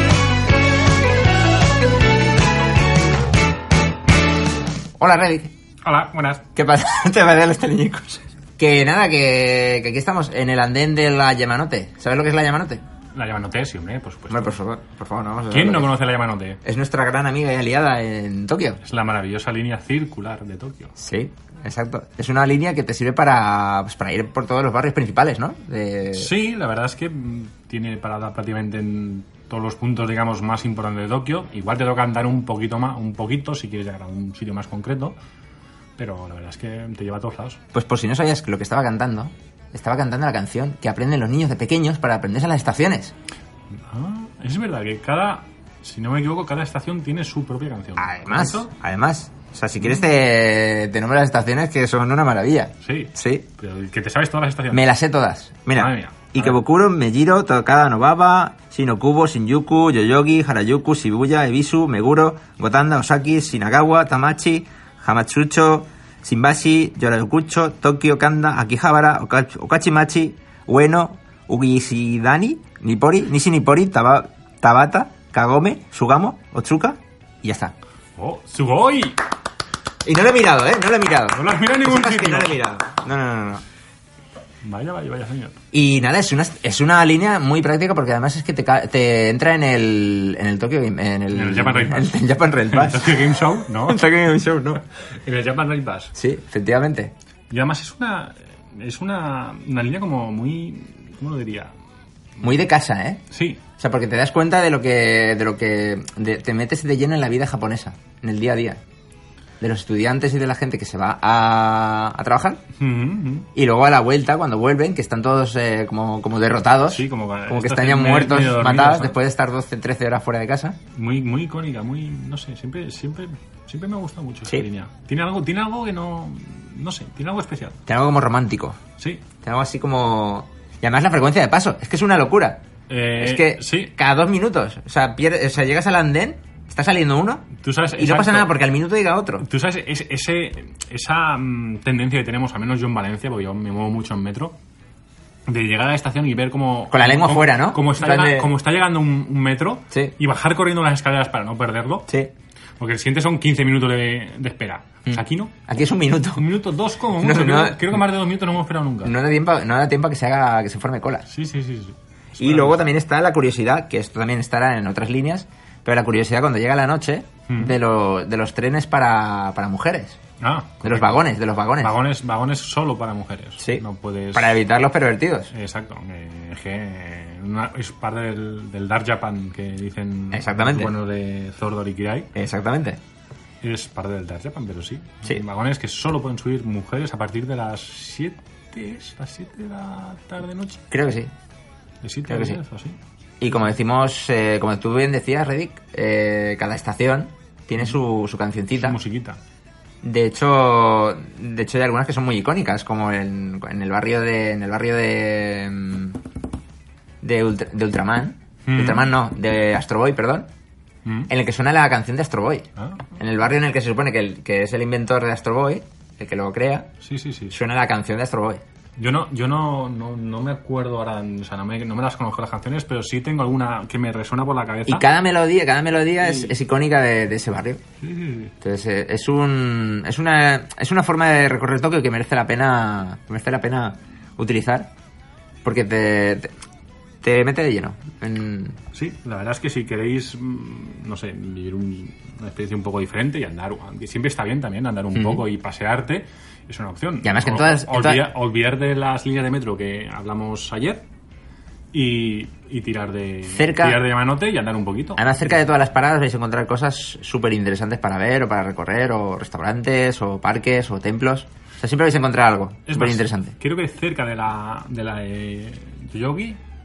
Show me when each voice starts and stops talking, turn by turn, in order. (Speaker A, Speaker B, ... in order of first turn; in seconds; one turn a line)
Speaker A: 5.0-5.5
Speaker B: 5.8-6.5
Speaker A: 6.5-12.8
Speaker B: 13.1-14.6
Speaker A: 14.3-15.9
Speaker B: 15.5-16.6
Speaker A: 16.6-18.8
Speaker B: 18.8-20.9
Speaker A: 21.0-26.3
Speaker B: 26.1-35.1
Speaker B: 36.0-37.6
Speaker A: 37.7-43.1
Speaker B: 43.9-48.7
Speaker A: 48.0-53.5
Speaker B: 52.8-54.9
Speaker A: 54.7-77.7
Speaker B: 55.7-56.6
Speaker B: 78.2-79.2
Speaker A: 80.0-83.6
Speaker B: 81.3-82.6
Speaker B: 84.6-85.5
Speaker A: 85.7-94.8
Speaker B: 91.3-92.2
Speaker B: 92.7-94.0
Speaker B: 95.2-96.1
Speaker A: 96.2-97.1
Speaker B: 97.5-101.7
Speaker A: 102.4-103.2
Speaker B: 103.3-103.6
Speaker A: 103.8-108.8
Speaker A: 109.6-112.6
Speaker B: 112.8-113.5
Speaker A: 113.5-120.8
Speaker B: 116.9-119.2
Speaker B: 120.9-127.8
Speaker A: 127.9-128.8
Speaker B: 129.0-129.2
Speaker A: 129.4-132.6
Speaker B: 132.9-133.9
Speaker A: 133.2-139.4
Speaker B: 137.6-138.5
Speaker B: 139.4-144.6
Speaker B: 145.5-152.1
Speaker A: 146.9-148.5
Speaker B: 152.8-155.6
Speaker A: 155.1-156.4
Speaker B: 156.3-159.2
Speaker A: 157.2-158.0
Speaker A: 159.0-161.3
Speaker B: 161.3-162.9
Speaker A: 162.4-170.2
Speaker B: 167.5-167.8
Speaker B: 170.4-171.2
Speaker A: 170.8-172.0
Speaker B: 171.8-174.6
Speaker A: 173.6-175.5
Speaker B: 175.5-182.3
Speaker A: 180.3-180.9
Speaker A: 182.3-183.0
Speaker B: 183.6-190.9
Speaker A: 190.9-191.3
Speaker B: 192.0-193.0
Speaker A: 192.3-192.6
Speaker A: 193.4-199.0
Speaker B: 198.8-199.4
Speaker A: 200.0-206.2
Speaker A: 207.2-210.5
Speaker B: 208.7-209.1
Speaker A: 211.3-212.7
Speaker B: 212.8-213.1
Speaker A: 213.2-216.9
Speaker B: 217.0-217.6
Speaker A: 217.5-218.6
Speaker B: 219.0-225.0
Speaker A: 224.9-227.8
Speaker B: 226.3-226.5
Speaker B: 228.0-228.5
Speaker A: 228.6-234.9
Speaker A: 235.6-236.5
Speaker A: 237.2-238.8
Speaker B: 238.9-251.0
Speaker A: 245.1-245.4
Speaker A: 247.2-248.2
Speaker B: 251.9-255.3
Speaker A: 253.4-254.0
Speaker A: 255.2-263.5
Speaker B: 262.9-266.6